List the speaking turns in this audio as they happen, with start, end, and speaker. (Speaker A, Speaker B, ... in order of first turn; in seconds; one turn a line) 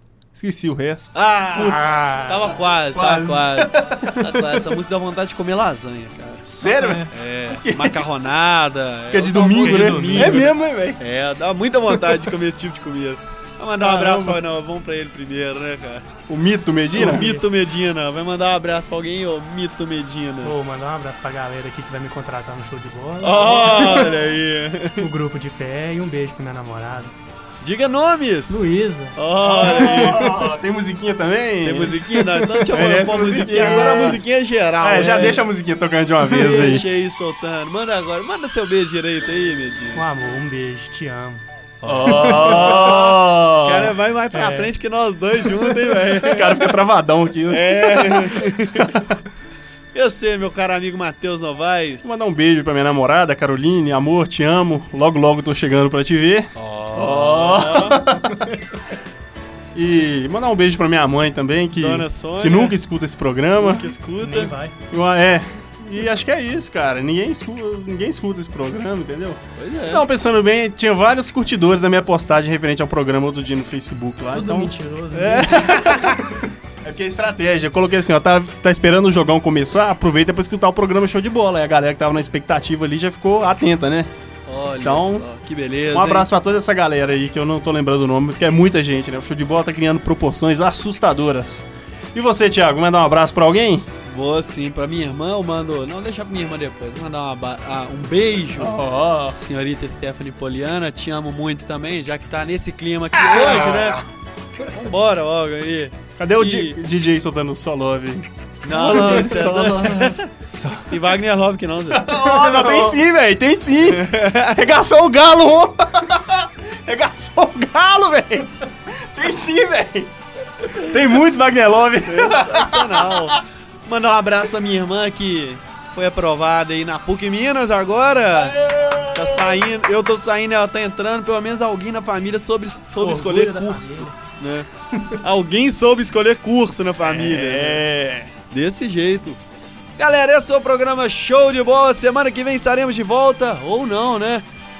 Speaker A: 0.3-2.2
Speaker B: 1.1-6.5
Speaker C: 1.5-2.5
Speaker A: 2.9-4.8
Speaker A: 6.4-8.1
Speaker C: 6.6-7.1
Speaker B: 7.1-16.1
Speaker A: 9.1-11.0
Speaker C: 9.5-10.5
Speaker A: 13.8-14.4
Speaker A: 16.3-17.3
Speaker B: 16.9-20.5
Speaker C: 17.0-17.4
Speaker C: 20.4-24.2
Speaker B: 23.2-25.1
Speaker C: 25.0-27.1
Speaker B: 27.6-30.3
Speaker C: 28.5-30.4
Speaker A: 29.4-32.0
Speaker B: 31.6-35.5
Speaker C: 32.2-32.6
Speaker A: 32.7-34.2
Speaker C: 33.5-34.0
Speaker A: 34.8-36.9
Speaker B: 36.3-40.0
Speaker C: 36.4-36.8
Speaker C: 39.9-41.4
Speaker B: 41.8-46.7
Speaker A: 41.8-43.9
Speaker C: 42.0-43.0
Speaker C: 44.3-44.7
Speaker A: 46.1-49.0
Speaker B: 47.5-49.0
Speaker B: 49.9-52.1
Speaker A: 52.0-58.4
Speaker B: 56.5-58.1
Speaker C: 58.3-58.6
Speaker A: 59.7-63.9
Speaker B: 61.8-62.8
Speaker B: 63.6-64.5
Speaker C: 64.2-64.8
Speaker A: 64.9-84.1
Speaker B: 69.5-70.0
Speaker C: 74.3-76.4
Speaker B: 84.5-86.3
Speaker A: 84.8-85.2
Speaker A: 85.9-93.9
Speaker B: 94.0-98.8
Speaker A: 98.6-99.4
Speaker B: 99.3-104.0
Speaker A: 103.1-104.0
Speaker B: 104.6-106.8
Speaker A: 106.2-111.0
Speaker B: 108.6-110.3
Speaker B: 110.8-112.8
Speaker A: 111.9-123.4
Speaker B: 113.9-114.5
Speaker B: 122.0-128.6
Speaker A: 128.3-129.6
Speaker B: 129.1-137.8
Speaker C: 133.0-134.1
Speaker C: 134.9-135.2
Speaker A: 137.0-138.3
Speaker B: 138.5-139.4
Speaker B: 140.0-144.4